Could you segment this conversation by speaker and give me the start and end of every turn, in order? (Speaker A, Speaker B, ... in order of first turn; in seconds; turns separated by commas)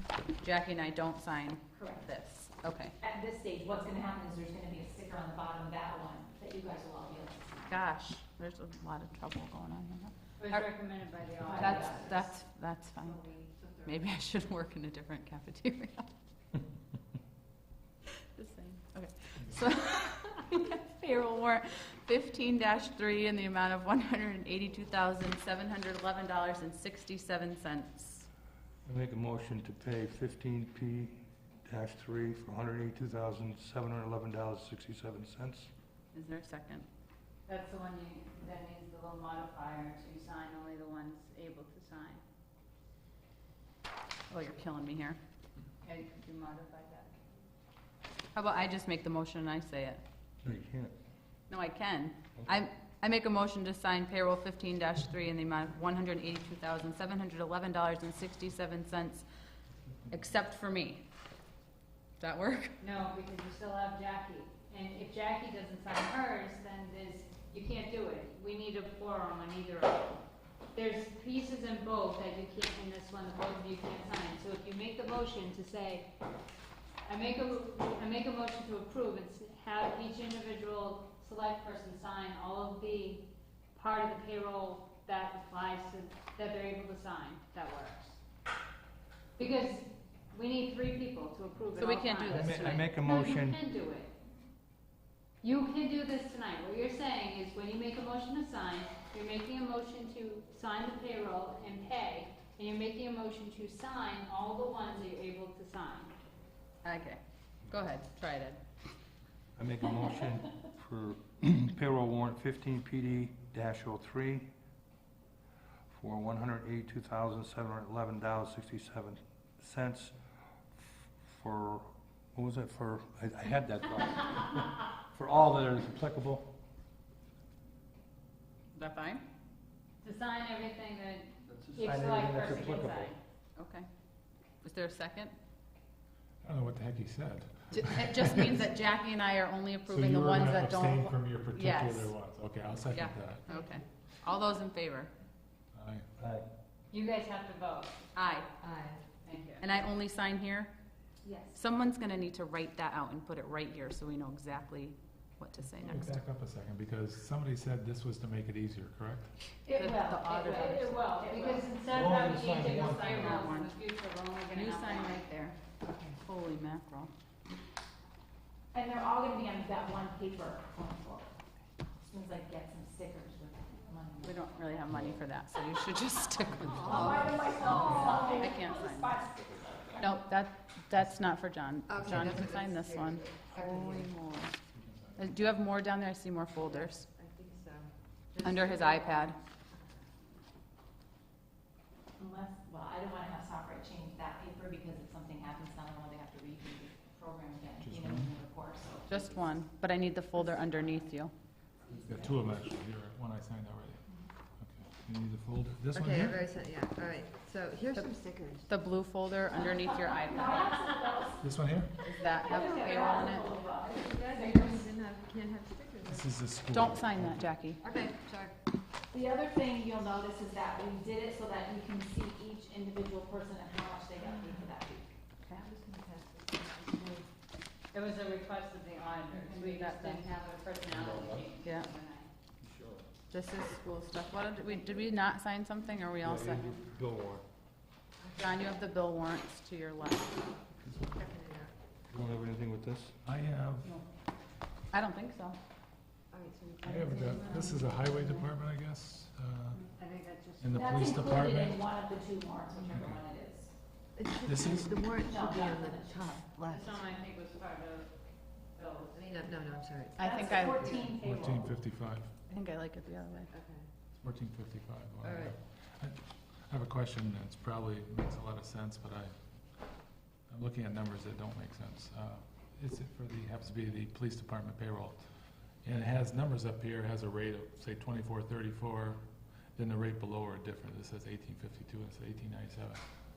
Speaker A: 0.4-3.0, Speaker B: 1.7-2.1, Speaker B: 3.0-7.8, Speaker A: 7.7-10.7, Speaker C: 10.4-12.2, Speaker B: 11.4-12.3, Speaker A: 11.6-13.2, Speaker D: 13.3-13.8, Speaker A: 13.8-16.1, Speaker A: 18.2-28.3, Speaker E: 28.8-35.7, Speaker A: 36.1-36.9, Speaker C: 37.5-42.2, Speaker A: 44.3-45.2, Speaker C: 45.8-47.2, Speaker A: 48.3-50.0, Speaker E: 50.4-50.9, Speaker A: 51.5-59.3, Speaker A: 60.1-61.0, Speaker A: 62.2-62.7, Speaker C: 62.8-70.2, Speaker C: 70.7-76.1, Speaker C: 77.0-88.2, Speaker C: 89.4-94.1, Speaker A: 91.8-92.8, Speaker E: 92.3-93.6, Speaker C: 95.4-106.1, Speaker A: 106.8-108.6, Speaker E: 109.6-114.5, Speaker E: 115.9-120.1, Speaker E: 120.8-126.5, Speaker A: 128.7-129.2, Speaker C: 130.0-133.2, Speaker E: 131.5-133.1, Speaker A: 133.6-133.9, Speaker A: 134.6-135.4, Speaker F: 136.4-138.8, Speaker A: 137.8-142.2, Speaker F: 139.8-143.6, Speaker A: 142.9-145.1, Speaker F: 145.7-146.1, Speaker E: 146.2-146.4, Speaker C: 146.9-148.0, Speaker A: 148.1-148.5, Speaker D: 148.6-149.0, Speaker C: 149.2-149.7, Speaker A: 149.6-150.7, Speaker B: 151.2-151.6, Speaker A: 151.5-156.1, Speaker F: 155.8-159.3, Speaker B: 159.7-162.2, Speaker A: 159.8-160.9, Speaker C: 160.3-165.3, Speaker F: 161.9-163.4, Speaker A: 162.9-163.7, Speaker A: 164.5-165.6, Speaker D: 165.8-166.1, Speaker A: 166.2-167.1, Speaker B: 168.7-171.3, Speaker B: 172.0-174.4, Speaker A: 174.2-176.8, Speaker D: 176.6-178.4, Speaker B: 176.8-180.1, Speaker F: 176.8-178.0, Speaker A: 178.0-179.1, Speaker A: 180.0-184.6, Speaker D: 181.8-184.1, Speaker F: 184.6-185.6, Speaker A: 185.2-187.1, Speaker D: 186.6-189.3, Speaker A: 188.4-189.4, Speaker B: 192.2-199.5, Speaker F: 197.8-198.4, Speaker A: 199.1-201.3, Speaker B: 201.9-202.3, Speaker F: 202.0-204.0, Speaker F: 204.6-206.4, Speaker D: 205.9-208.7, Speaker A: 208.7-210.8, Speaker B: 209.7-211.5, Speaker F: 211.4-212.0, Speaker A: 212.0-213.5, Speaker B: 212.4-214.9, Speaker D: 212.6-216.2, Speaker F: 216.0-217.5, Speaker A: 216.7-217.8, Speaker D: 217.8-218.6, Speaker B: 219.1-225.1, Speaker D: 225.6-227.3, Speaker C: 227.9-232.3, Speaker A: 229.4-230.3, Speaker E: 231.0-231.4, Speaker A: 231.6-231.9, Speaker E: 232.6-233.1, Speaker A: 233.3-236.8, Speaker C: 234.7-235.0, Speaker E: 236.2-237.4, Speaker D: 238.2-238.7, Speaker A: 238.3-240.6, Speaker E: 240.8-241.2, Speaker D: 241.1-241.7, Speaker E: 242.1-243.2, Speaker F: 243.2-244.0, Speaker A: 244.9-245.6, Speaker D: 246.3-247.4, Speaker F: 246.8-249.9, Speaker B: 247.1-248.4, Speaker C: 249.9-250.8, Speaker F: 250.6-251.9, Speaker B: 250.7-253.7, Speaker F: 252.9-253.2, Speaker D: 254.2-256.9, Speaker F: 254.4-254.9, Speaker B: 255.2-256.3, Speaker C: 256.7-258.1, Speaker C: 258.7-259.5, Speaker D: 259.3-260.5, Speaker A: 260.1-261.1, Speaker B: 260.2-261.7, Speaker C: 260.4-261.0, Speaker F: 261.1-262.3, Speaker A: 262.5-263.5, Speaker D: 263.5-263.9, Speaker F: 264.2-269.3, Speaker D: 265.2-265.5, Speaker F: 270.5-275.3, Speaker F: 275.8-279.2, Speaker F: 279.8-283.0